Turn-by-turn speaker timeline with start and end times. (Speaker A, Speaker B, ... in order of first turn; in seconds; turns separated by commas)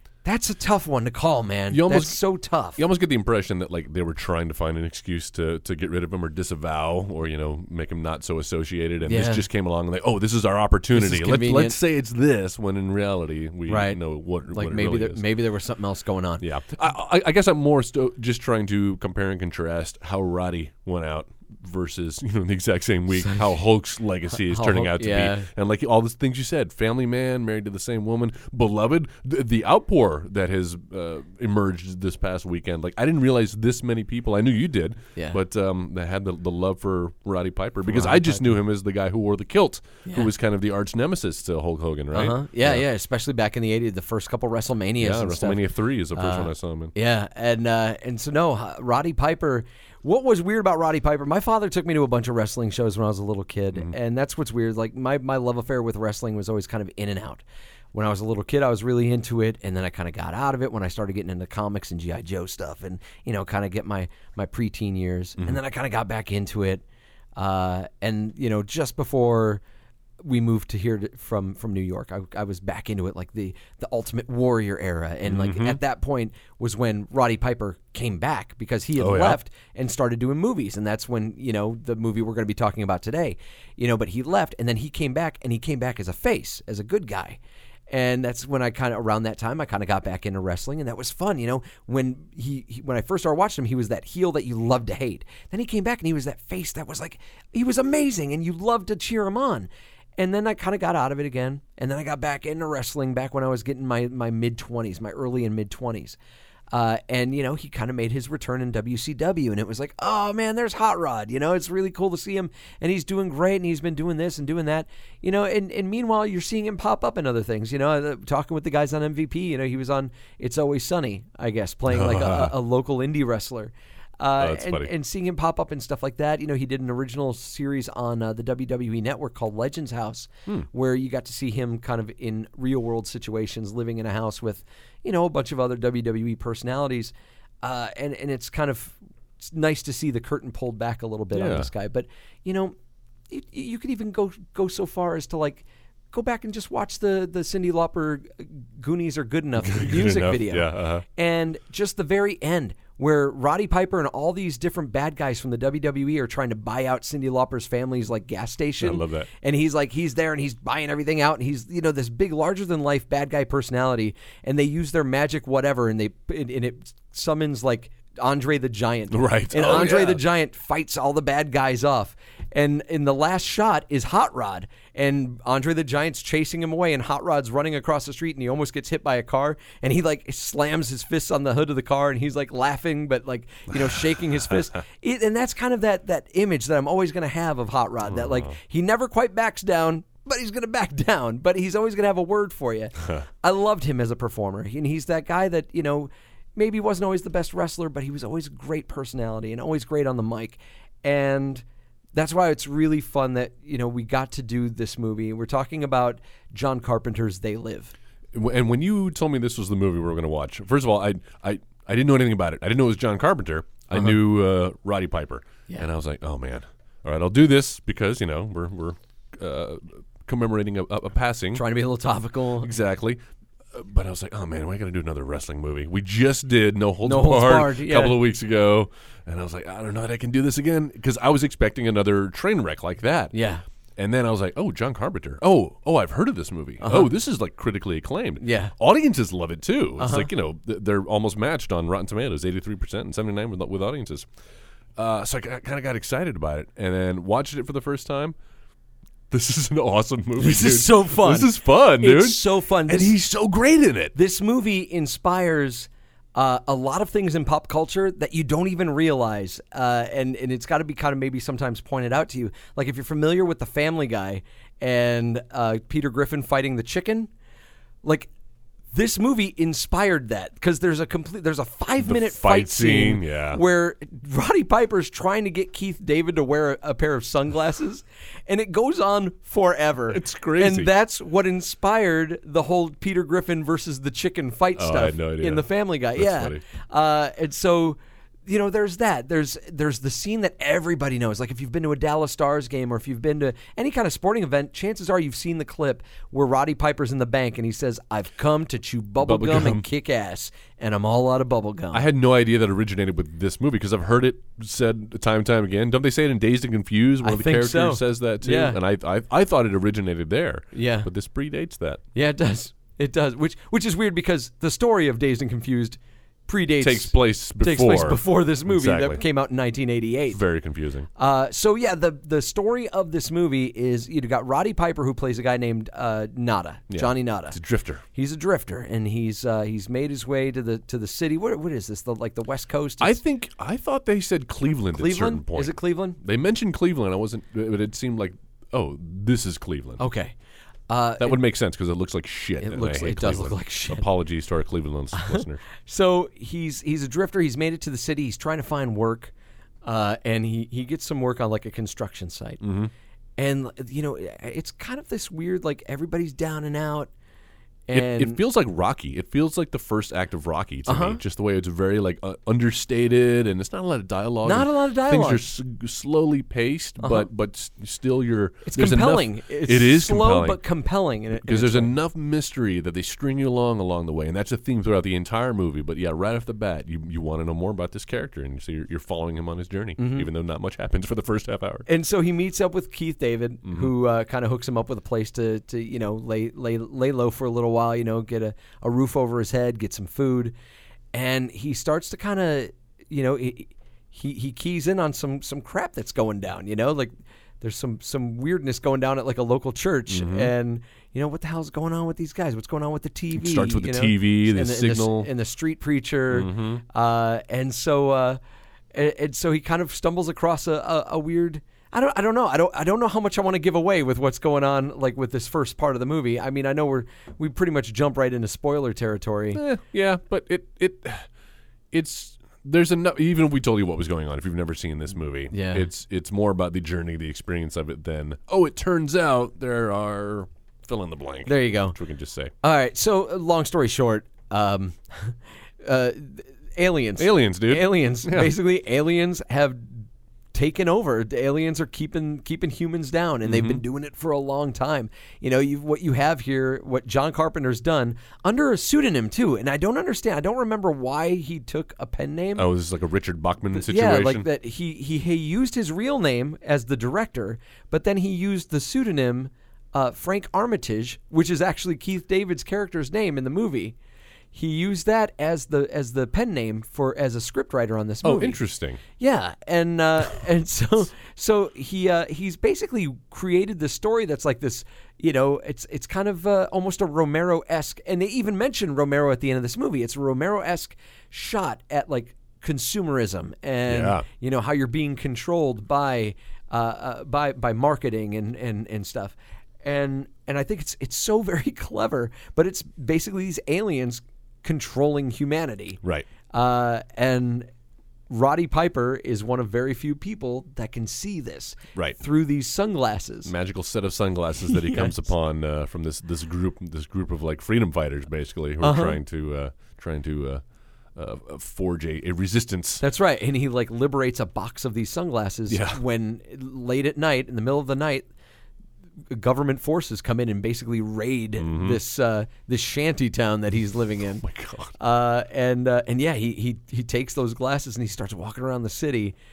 Speaker A: 0.2-2.8, Speaker B: 1.7-2.2, Speaker B: 2.7-15.2, Speaker A: 9.0-9.4, Speaker A: 10.9-11.8, Speaker A: 13.7-16.4, Speaker B: 16.4-42.8, Speaker A: 24.4-25.5, Speaker A: 37.9-38.5, Speaker A: 42.1-66.8, Speaker B: 45.0-46.9, Speaker A: 67.3-69.6, Speaker A: 70.2-87.4, Speaker B: 75.2-75.8, Speaker B: 79.0-79.4, Speaker A: 87.9-106.2, Speaker A: 106.7-142.7, Speaker B: 121.9-122.5, Speaker B: 124.4-124.9, Speaker B: 141.3-141.7, Speaker A: 143.3-207.9, Speaker B: 149.6-151.0, Speaker B: 158.8-159.3, Speaker B: 169.1-170.2, Speaker B: 188.1-188.5, Speaker B: 208.3-221.6, Speaker A: 221.5-222.7, Speaker B: 222.6-223.2, Speaker B: 223.7-233.3, Speaker A: 227.0-228.2, Speaker A: 233.3-233.6, Speaker B: 233.9-244.3, Speaker A: 236.8-237.1, Speaker A: 238.4-238.7, Speaker A: 240.0-240.3, Speaker B: 244.9-248.3, Speaker B: 249.3-254.1, Speaker A: 250.4-253.2, Speaker A: 254.1-267.3, Speaker A: 268.0-268.3, Speaker A: 268.9-302.1, Speaker B: 272.0-273.6, Speaker B: 280.1-280.9, Speaker B: 284.8-286.6, Speaker B: 299.2-299.9, Speaker B: 301.9-312.0, Speaker A: 307.2-308.8, Speaker A: 310.7-311.1, Speaker A: 312.1-320.4, Speaker B: 316.8-319.2, Speaker B: 320.3-321.1, Speaker A: 321.1-327.6, Speaker B: 326.9-328.0, Speaker A: 328.1-333.2, Speaker B: 333.0-340.0, Speaker A: 334.9-336.2, Speaker A: 340.0-340.3, Speaker A: 340.9-341.4, Speaker B: 341.2-345.6, Speaker A: 342.6-344.1, Speaker A: 345.1-349.3, Speaker A: 349.8-352.6, Speaker B: 352.6-352.9, Speaker A: 353.4-357.1, Speaker A: 357.9-358.4, Speaker B: 357.9-370.6, Speaker A: 360.9-361.2, Speaker A: 364.4-365.4, Speaker A: 367.0-367.3, Speaker A: 368.6-371.9, Speaker B: 371.4-381.9, Speaker A: 380.0-380.3, Speaker A: 381.9-390.5, Speaker B: 383.6-383.9, Speaker A: 391.1-408.4, Speaker B: 400.1-400.5, Speaker B: 403.3-405.3, Speaker B: 406.3-406.8, Speaker A: 408.9-419.6, Speaker B: 419.5-421.3, Speaker B: 421.9-432.5, Speaker A: 425.5-425.9, Speaker A: 431.4-431.9, Speaker A: 432.6-452.7, Speaker B: 437.2-438.5, Speaker B: 443.4-443.8, Speaker B: 452.6-454.5, Speaker A: 453.7-463.9, Speaker A: 464.5-468.6, Speaker B: 468.2-469.0, Speaker A: 469.1-497.7, Speaker B: 483.9-484.2, Speaker B: 496.0-496.3, Speaker A: 498.3-503.5, Speaker B: 503.4-510.6, Speaker A: 504.7-505.1, Speaker A: 508.8-509.2, Speaker B: 511.1-513.0, Speaker A: 513.0-518.3, Speaker B: 515.7-516.0, Speaker A: 519.3-524.4, Speaker B: 521.6-522.0, Speaker B: 524.4-524.9, Speaker A: 525.0-529.3